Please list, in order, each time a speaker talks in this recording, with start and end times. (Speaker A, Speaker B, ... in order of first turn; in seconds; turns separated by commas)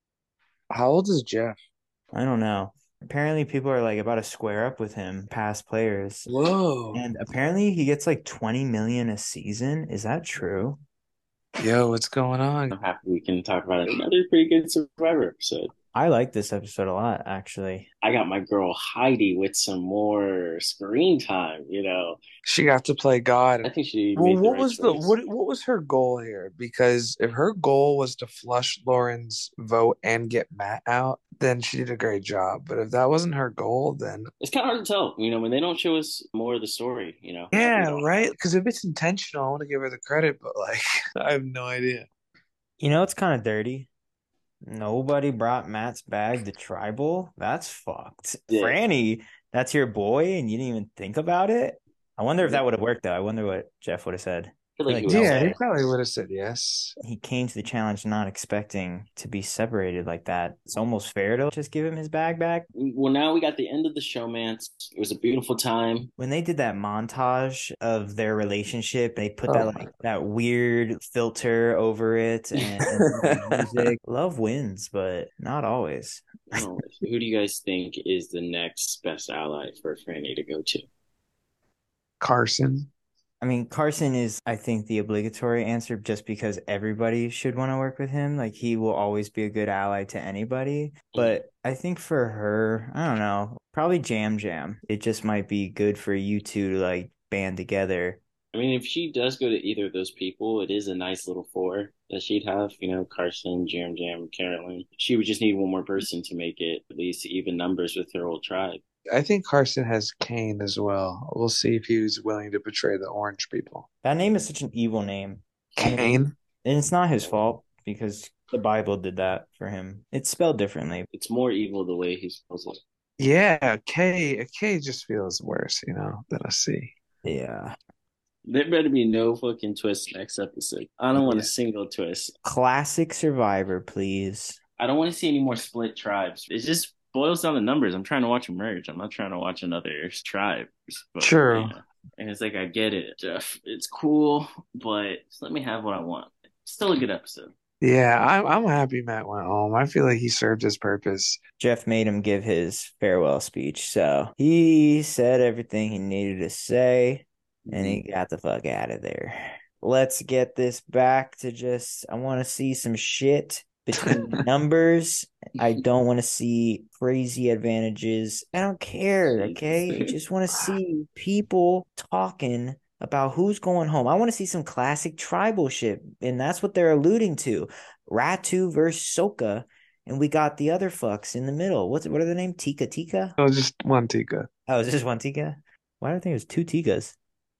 Speaker A: 0.7-1.6, Speaker B: 2.1-6.3, Speaker A: 6.3-7.0, Speaker B: 6.9-10.8, Speaker A: 11.6-12.7, Speaker C: 12.7-15.7, Speaker B: 15.9-17.9, Speaker C: 18.0-22.2, Speaker A: 22.4-34.3, Speaker C: 23.6-25.1, Speaker C: 34.4-38.3, Speaker A: 37.5-42.0, Speaker B: 42.8-43.9, Speaker B: 44.6-55.5, Speaker C: 48.5-48.8, Speaker C: 54.8-55.6, Speaker A: 55.1-57.0, Speaker B: 57.0-62.7, Speaker C: 62.8-66.1, Speaker B: 66.2-76.5, Speaker A: 69.5-69.9, Speaker A: 72.9-73.9, Speaker C: 76.5-80.8, Speaker A: 82.2-82.9, Speaker B: 83.4-98.2, Speaker C: 91.1-91.4, Speaker C: 98.5-108.8, Speaker A: 109.1-113.8, Speaker B: 114.0-121.1, Speaker A: 115.8-116.3, Speaker C: 121.1-122.8, Speaker A: 123.2-126.9, Speaker B: 127.2-127.8, Speaker C: 128.4-132.3, Speaker A: 131.1-131.5, Speaker B: 132.4-134.6, Speaker C: 134.8-147.5, Speaker A: 141.2-141.7, Speaker A: 147.8-151.4, Speaker B: 151.6-183.3, Speaker C: 157.6-158.0, Speaker C: 169.2-170.1, Speaker A: 183.4-184.5, Speaker B: 184.7-187.2